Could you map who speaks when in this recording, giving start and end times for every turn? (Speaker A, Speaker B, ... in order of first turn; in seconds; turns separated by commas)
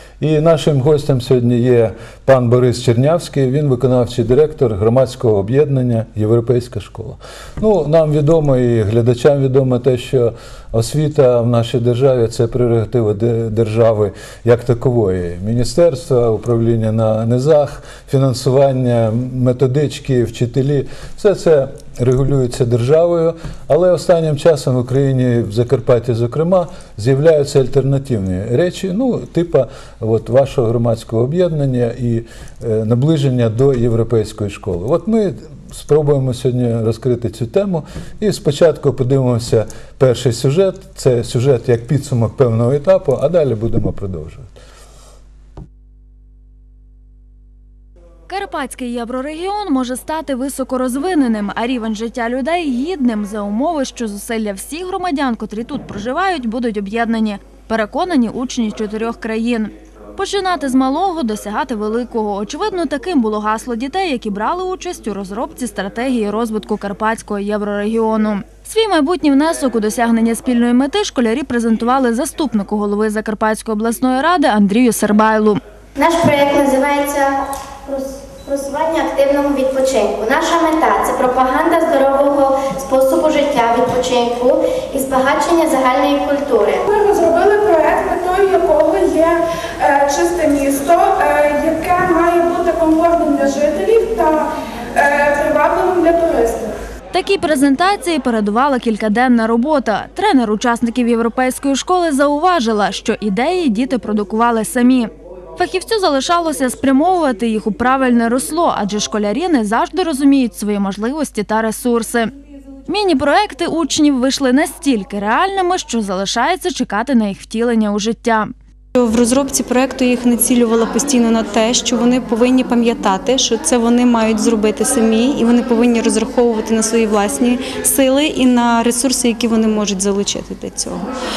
Speaker A: 0.2-44.5, Speaker B: 48.3-75.6, Speaker C: 76.0-86.8, Speaker D: 87.0-94.4, Speaker D: 95.0-96.7, Speaker B: 97.1-112.3, Speaker B: 112.8-118.5, Speaker E: 118.9-131.0